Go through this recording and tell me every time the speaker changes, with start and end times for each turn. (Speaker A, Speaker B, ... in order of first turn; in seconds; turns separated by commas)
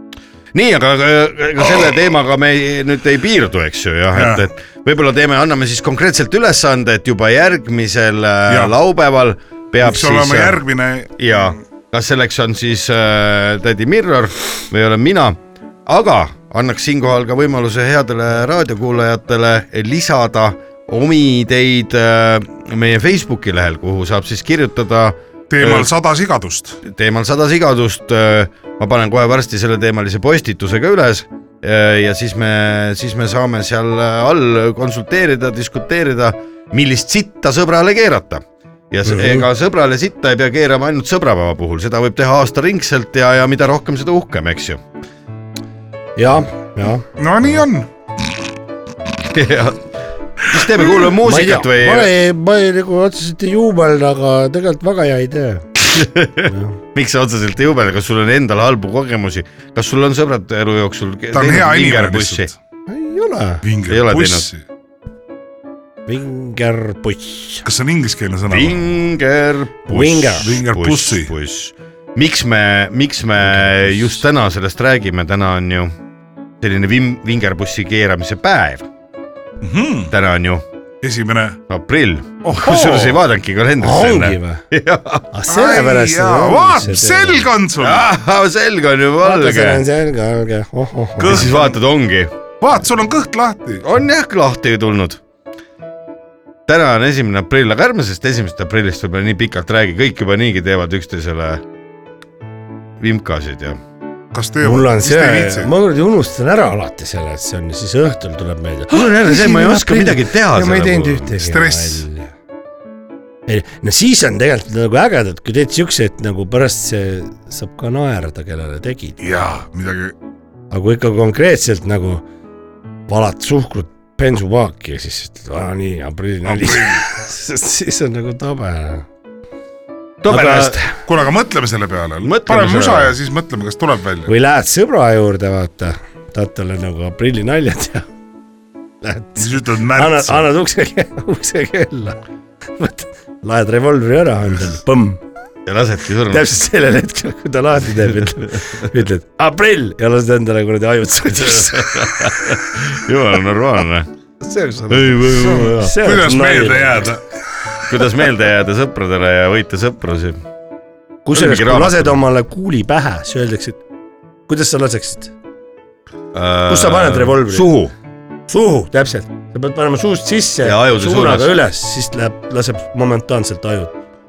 Speaker A: 0.5-10.6, Speaker B: 4.1-4.4, Speaker B: 8.5-8.8, Speaker B: 9.8-11.3, Speaker A: 11.2-25.9, Speaker B: 25.5-26.8, Speaker A: 26.8-44.8, Speaker C: 39.0-39.5, Speaker C: 46.2-47.0, Speaker B: 47.2-47.9, Speaker A: 49.2-52.1, Speaker C: 51.2-55.7, Speaker A: 55.8-62.5, Speaker C: 56.5-56.8, Speaker B: 61.3-62.5, Speaker C: 62.9-63.6, Speaker B: 63.6-64.6, Speaker A: 63.9-64.5, Speaker C: 66.1-67.6, Speaker B: 67.6-68.8, Speaker A: 68.5-75.9, Speaker C: 69.9-70.5, Speaker B: 70.4-71.3, Speaker A: 76.6-78.8, Speaker B: 79.6-80.1, Speaker A: 80.1-80.6, Speaker B: 81.0-81.6, Speaker A: 81.7-85.2, Speaker B: 82.4-83.2, Speaker C: 83.8-84.6, Speaker C: 85.3-87.5, Speaker B: 85.5-88.1, Speaker A: 87.8-89.8, Speaker C: 89.2-91.5, Speaker B: 91.2-91.8, Speaker A: 91.2-92.3, Speaker B: 92.6-93.8, Speaker A: 93.8-95.2, Speaker A: 96.7-101.6, Speaker A: 103.0-103.8, Speaker B: 104.3-105.7, Speaker C: 104.6-112.3, Speaker A: 108.9-111.3, Speaker B: 111.3-112.0, Speaker C: 113.5-119.2, Speaker B: 119.2-120.1, Speaker C: 120.7-122.2, Speaker C: 123.1-129.1, Speaker B: 126.5-127.0, Speaker A: 130.2-130.8, Speaker C: 130.3-130.9, Speaker B: 130.3-134.3, Speaker A: 132.2-133.1, Speaker C: 134.3-138.1, Speaker C: 139.0-142.2, Speaker B: 139.4-140.5, Speaker C: 142.8-145.2, Speaker A: 145.7-146.5, Speaker C: 146.3-152.6, Speaker A: 151.3-154.1, Speaker C: 154.4-157.1, Speaker A: 154.9-155.8, Speaker B: 155.4-157.2, Speaker A: 157.9-160.4, Speaker C: 161.2-163.8, Speaker A: 161.3-162.2, Speaker C: 164.5-165.3, Speaker A: 166.3-167.9, Speaker C: 166.7-167.7, Speaker C: 168.5-173.9, Speaker A: 170.6-171.6